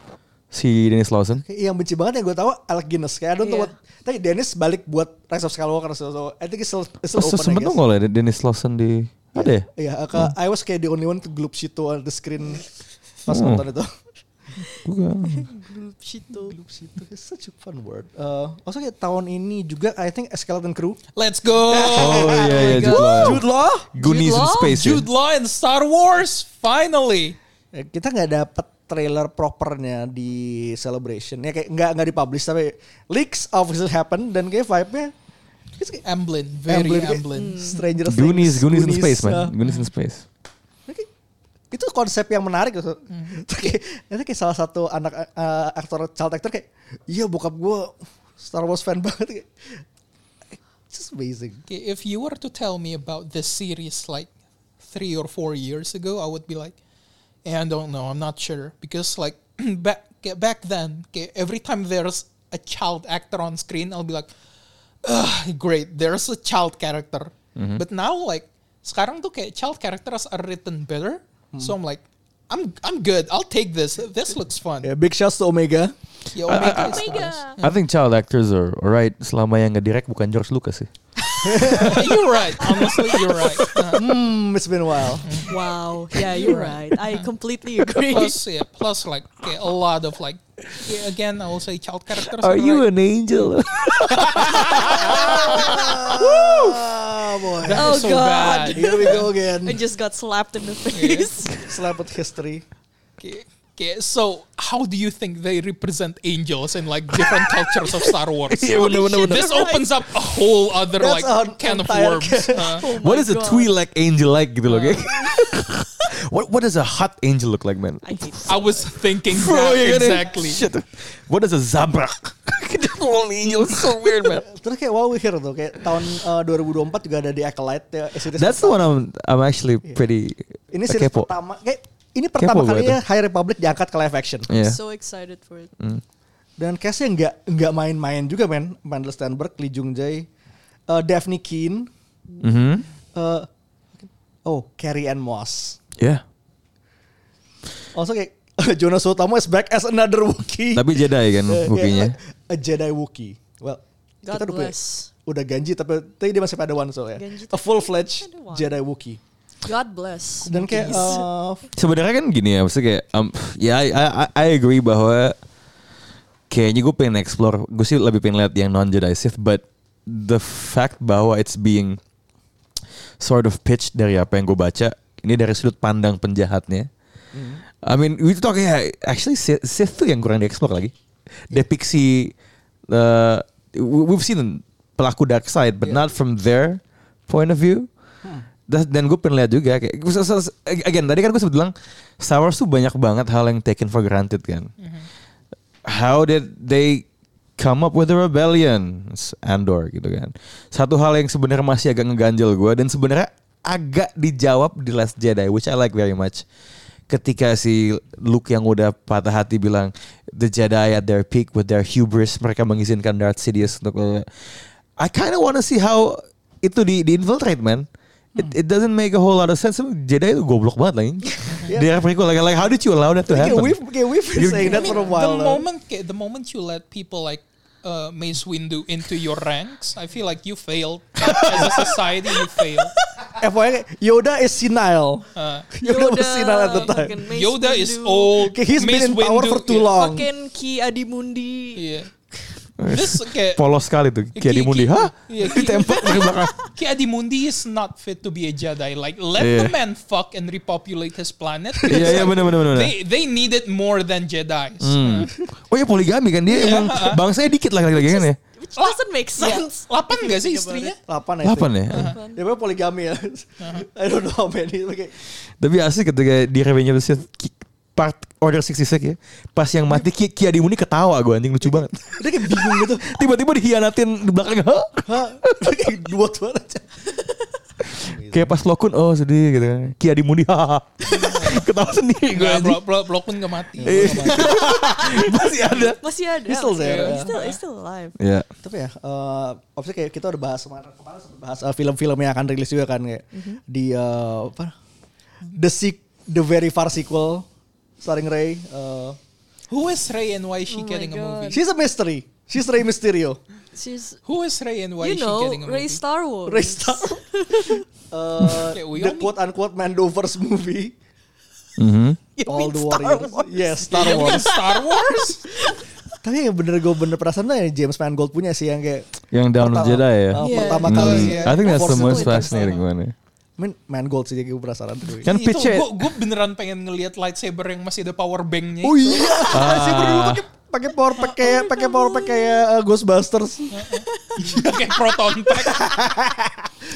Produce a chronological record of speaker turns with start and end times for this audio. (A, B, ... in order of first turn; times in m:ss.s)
0:00.5-0:01.4 A
0:01.4-0:07.8 B
0:03.4-0:03.7 C
0:07.1-0:10.3 A
0:09.4-0:12.7 B
0:13.2-0:13.9 B
0:13.3-0:13.6 A
0:14.8-0:16.6 C
0:14.8-0:15.5 A
0:16.5-0:21.0 B
0:21.2-0:22.7 D
0:21.6-0:23.9 B
0:21.9-0:23.4 A
0:22.4-0:23.4 C
0:24.0-0:25.1 A
0:24.0-0:24.8 C
0:24.6-0:27.4 D
0:27.7-0:35.1 B
0:36.0-0:37.6 D
0:36.7-0:39.5 B
0:37.3-0:38.0 C
0:38.0-0:40.2 A
0:39.6-0:39.9 D
0:41.7-0:49.5 B
0:50.9-0:51.6 B
0:51.7-0:54.3 D
0:54.8-0:56.8 D
0:57.4-1:04.3 D
1:05.0-1:14.9 D
1:07.6-1:07.8 A
1:14.8-1:15.9 B
1:16.3-1:17.8 D
1:16.4-1:20.9 A
1:16.5-1:17.6 C
1:21.2-1:22.0 C
1:21.4-1:22.2 B
1:21.8-1:24.0 D
1:22.8-1:23.8 C
1:23.9-1:25.4 B
1:25.2-1:25.6 D
1:25.5-1:28.4 C
1:26.3-1:27.3 D
1:28.0-1:32.9 D
1:32.3-1:35.6 A
1:34.3-1:36.8 D
1:35.0-1:39.8 B
1:35.2-1:36.0 C
1:37.6-1:39.3 D
1:37.7-1:41.6 C
1:40.9-1:41.3 D
1:41.6-1:42.6 B
1:43.2-1:52.8 D
1:48.5-1:49.7 A
1:48.7-1:49.9 C
1:51.0-1:52.8 B
1:52.6-1:53.7 C
1:53.0-1:58.0 A
1:54.6-1:55.0 D
1:58.0-1:59.0 C
1:58.5-2:00.6 D
1:59.3-2:04.4 A
2:04.4-2:09.0 B
2:08.3-2:11.3 A
2:10.7-2:14.5 B
2:12.4-2:13.0 A
2:14.5-2:14.8 A
2:14.5-2:15.7 C
2:16.6-2:20.3 B
2:20.9-2:21.9 B
2:22.4-2:22.8 A
2:23.1-2:23.5 B
2:24.0-2:25.8 B
2:26.0-2:26.2 A
2:27.9-2:39.2 B
2:30.7-2:32.2 A
2:34.2-2:35.1 C
2:37.1-2:38.7 C
2:39.6-2:41.3 C
2:40.4-2:41.7 B
2:41.7-2:45.4 A
2:46.5-2:52.0 A
2:53.2-2:56.9 A
2:57.3-2:57.6 B
2:57.8-3:00.9 A
3:01.5-3:02.3 A
3:02.9-3:07.9 A
3:08.7-3:14.7 A
3:14.8-3:15.1 D
3:15.9-3:17.0 A
3:17.6-3:26.4 A
3:27.1-3:34.3 A
3:35.0-3:44.8 A
3:41.7-3:41.9 B
3:43.3-3:45.6 B
3:44.6-3:45.2 C
3:44.6-3:52.9 D
3:51.3-3:52.0 B
3:53.3-3:57.2 B
3:55.4-3:55.7 D
3:55.7-3:58.5 C
3:56.9-3:59.9 D
3:58.4-4:00.3 B
3:59.9-4:01.8 C
4:01.8-4:02.1 D
4:02.8-4:06.6 A
4:02.9-4:03.6 D
4:04.3-4:15.3 D
4:05.7-4:06.6 C
4:09.4-4:09.8 A
4:11.9-4:12.3 B
4:11.9-4:13.0 A
4:14.8-4:18.4 A
4:16.5-4:17.2 D
4:17.9-4:21.0 C
4:18.8-4:21.0 D
4:21.0-4:25.1 B
4:21.4-4:22.1 A
4:21.9-4:22.2 D
4:22.0-4:22.4 C
4:23.6-4:23.8 D
4:25.6-4:35.8 A
4:31.6-4:33.1 B
4:35.0-4:36.9 B
4:38.0-4:38.6 B
4:38.3-4:42.8 A
4:41.1-4:41.5 C
4:41.2-4:41.6 B
4:42.3-4:44.4 D
4:43.8-4:44.7 B
4:43.8-4:46.0 A
4:44.3-4:48.2 C
4:46.4-4:47.3 B
4:46.8-4:47.6 D
4:48.2-4:48.5 A
4:48.6-4:54.7 B
4:53.3-4:53.6 C
4:55.5-4:57.5 B
4:58.0-4:59.2 B
4:59.7-5:01.6 D
5:00.7-5:01.6 C
5:01.5-5:03.4 B
5:03.7-5:04.2 C
5:04.3-5:06.0 D
5:05.0-5:07.8 C
5:06.4-5:10.9 B
5:08.5-5:09.3 D
5:11.8-5:12.2 A
5:12.4-5:15.8 C
5:12.4-5:14.6 B
5:13.9-5:15.4 D
5:16.2-5:22.8 B
5:19.3-5:23.1 A
5:20.4-5:22.8 C
5:20.5-5:22.7 D
5:23.6-5:25.3 B
5:25.2-5:26.1 A
5:25.3-5:29.5 D
5:28.8-5:33.9 B
5:29.5-5:30.4 A
5:31.3-5:32.6 C
5:33.7-5:35.9 D
5:34.1-5:34.6 C
5:34.4-5:34.7 B
5:35.6-5:36.6 B